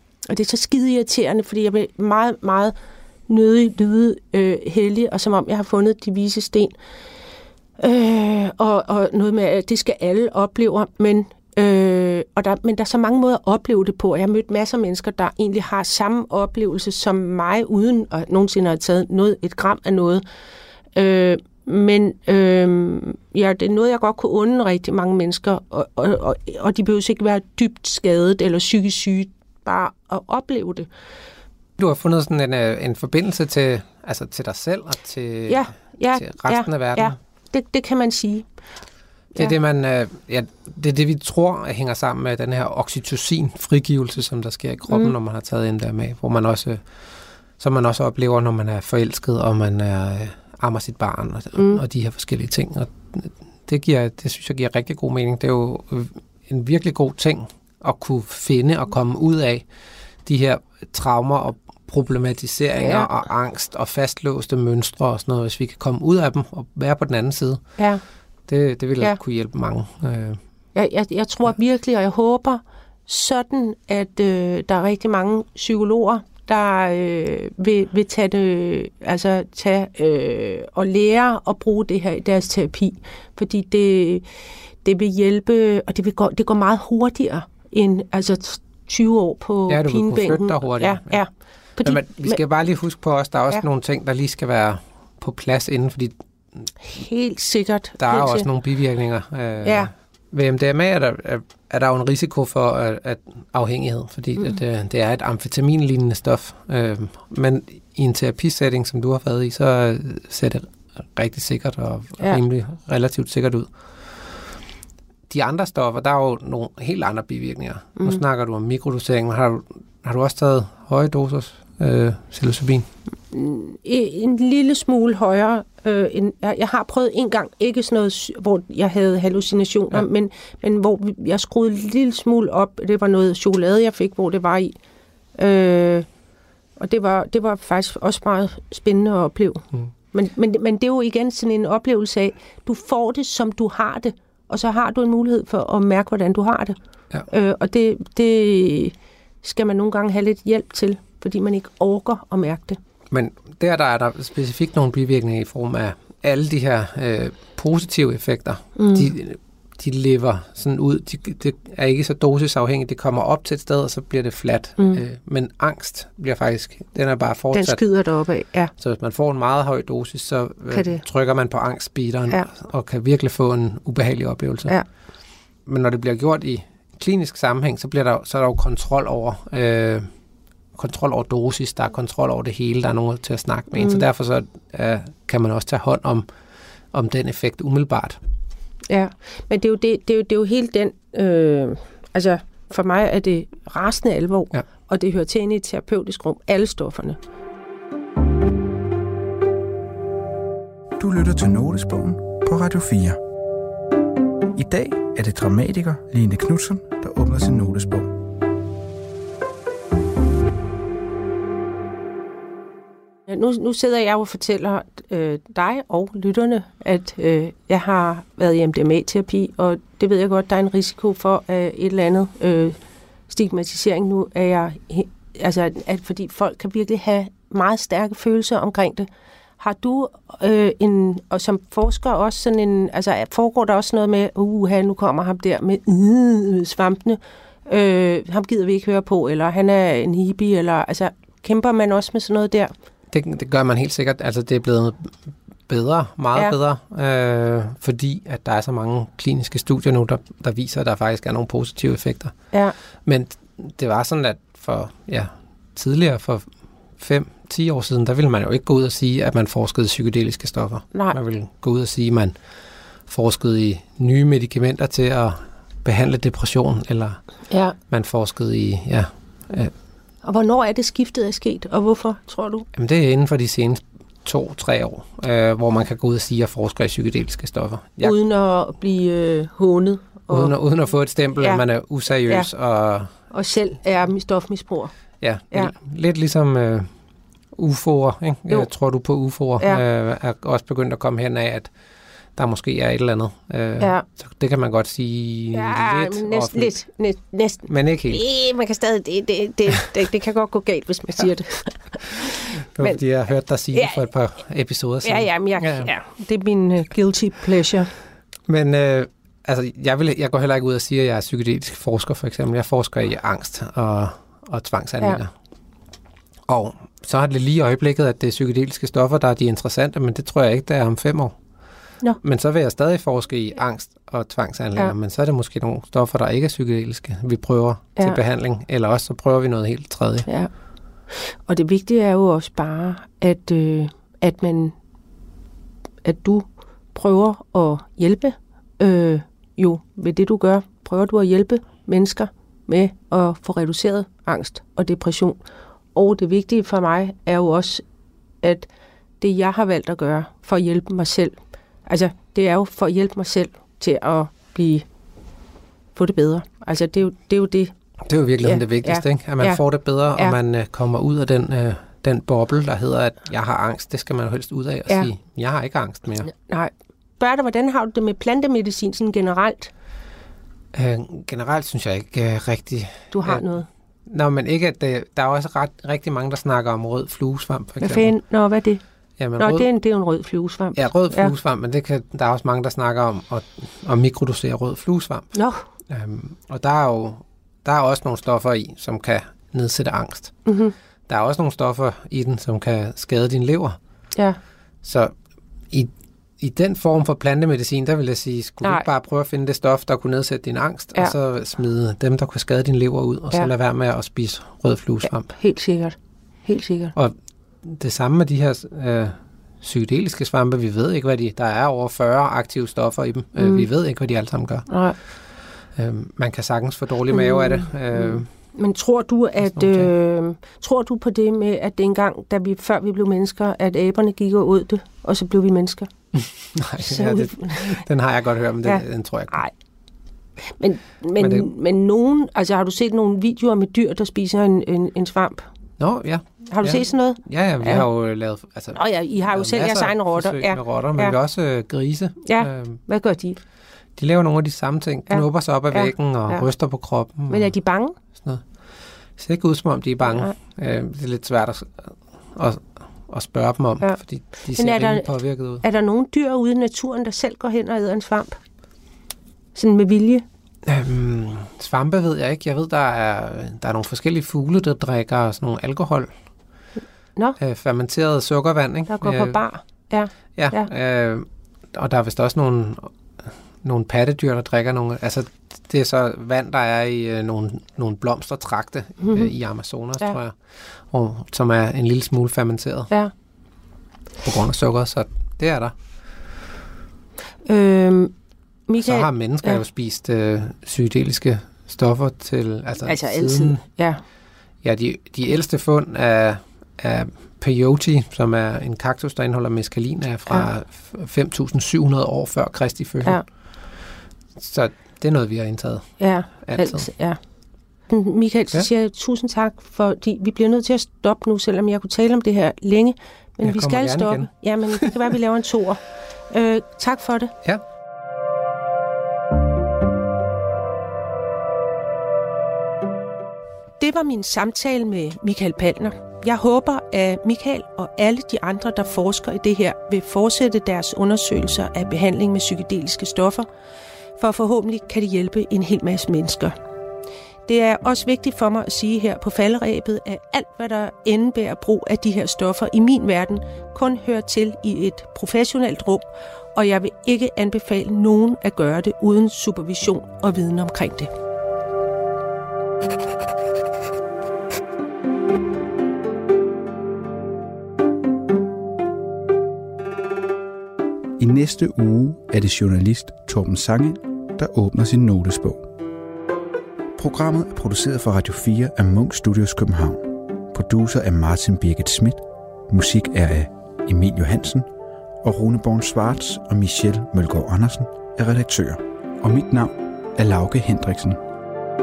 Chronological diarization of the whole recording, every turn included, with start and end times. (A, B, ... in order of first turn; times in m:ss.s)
0:00.3-0:02.7 A
0:03.3-0:06.7 A
0:07.8-0:20.2 A
0:20.9-0:30.9 A
0:31.8-0:37.2 B
0:35.5-0:38.4 A
0:39.4-0:46.8 B
0:47.6-0:59.6 B
0:51.6-0:51.8 A
1:00.2-1:07.6 B
1:02.8-1:03.1 A
1:08.5-1:10.4 B
1:10.7-1:24.2 A
1:24.8-1:32.4 A
1:29.7-1:31.2 B
1:31.8-1:36.1 B
1:36.8-1:38.4 A
1:38.0-1:53.7 B
1:39.6-1:39.9 A
1:55.3-2:02.9 B
2:03.3-2:14.7 A
2:15.4-2:16.1 A
2:16.8-2:26.8 A
2:27.3-2:32.8 A
2:33.1-2:47.8 B
2:38.8-2:39.1 A
2:47.5-2:48.7 A
2:48.8-2:54.8 B
2:50.7-2:51.0 A
2:55.6-3:00.1 B
3:00.8-3:06.2 B
3:03.7-3:04.0 A
3:06.9-3:08.2 B
3:08.9-3:17.2 A
3:21.0-3:23.2 C
3:24.5-3:28.1 C
3:33.3-3:42.8 A
3:43.3-4:02.7 A
4:03.1-4:05.1 B
4:05.7-4:12.3 B
4:13.0-4:16.4 B
4:17.0-4:22.3 B
4:23.1-4:27.2 B
4:27.5-4:27.7 A
4:27.9-4:29.7 B
4:30.2-4:32.6 A
4:32.8-4:38.1 B
4:38.0-4:40.5 A
4:40.3-4:43.1 B
4:43.3-4:44.9 A
4:45.2-4:46.9 B
4:47.6-4:51.7 B
4:52.4-4:56.7 B
4:55.5-5:03.0 A
4:57.7-4:58.2 B
5:02.7-5:05.9 B
5:03.7-5:04.0 A
5:05.0-5:07.9 A
5:08.5-5:15.3 B
5:16.5-5:21.3 B
5:22.2-5:30.3 B
5:31.2-5:34.7 A
5:36.0-5:45.4 A
5:45.9-5:47.8 A
5:48.4-5:48.7 A
5:49.2-5:51.4 A
5:51.9-5:54.8 A
5:56.0-5:57.7 A
5:58.0-6:06.3 B
5:58.4-5:59.6 A
6:06.2-6:09.7 A
6:10.7-6:13.5 B
6:13.1-6:13.6 A
6:14.1-6:18.1 B
6:17.8-6:18.8 A
6:19.2-6:19.7 B
6:19.4-6:21.3 A
6:20.8-6:25.3 B
6:25.3-6:25.6 A
6:25.9-6:30.4 B
6:30.5-6:30.7 A
6:31.1-6:33.8 B
6:34.8-6:35.1 B
6:35.7-6:45.3 B
6:45.0-6:46.9 A
6:46.9-6:54.7 B
6:53.4-6:53.6 A
6:54.7-6:55.0 A
6:55.7-6:58.3 B
6:57.1-7:05.9 A
6:59.4-6:59.9 B
7:06.2-7:09.4 B
7:06.8-7:07.8 A
7:08.6-7:09.5 A
7:10.6-7:15.4 A
7:11.2-7:11.5 B
7:15.8-7:22.8 B
7:16.5-7:17.9 A
7:18.7-7:21.1 A
7:22.2-7:23.4 A
7:24.0-7:27.5 B
7:25.1-7:26.4 A
7:27.3-7:28.0 A
7:28.2-7:28.4 B
7:29.2-7:35.6 B
7:30.0-7:30.3 A
7:34.5-7:35.1 A
7:35.6-7:38.4 A
7:39.6-7:40.2 A
7:40.6-7:46.1 B
7:47.4-7:49.4 B
7:48.9-7:50.7 A
7:50.4-7:52.9 B
7:53.6-8:00.4 B
7:59.0-7:59.3 A
8:00.9-8:02.9 B
8:04.2-8:05.7 B
8:07.4-8:08.1 A
8:08.7-8:09.6 A
8:08.8-8:13.6 B
8:12.8-8:14.0 A
8:14.6-8:23.2 B
8:24.4-8:26.9 B
8:26.0-8:27.2 A
8:27.9-8:37.3 A
8:33.4-8:34.9 B
8:43.8-8:53.5 A
8:54.2-8:56.6 A
8:57.5-9:11.1 A
9:21.2-9:25.6 C
9:27.0-9:34.7 C
9:35.2-9:41.2 C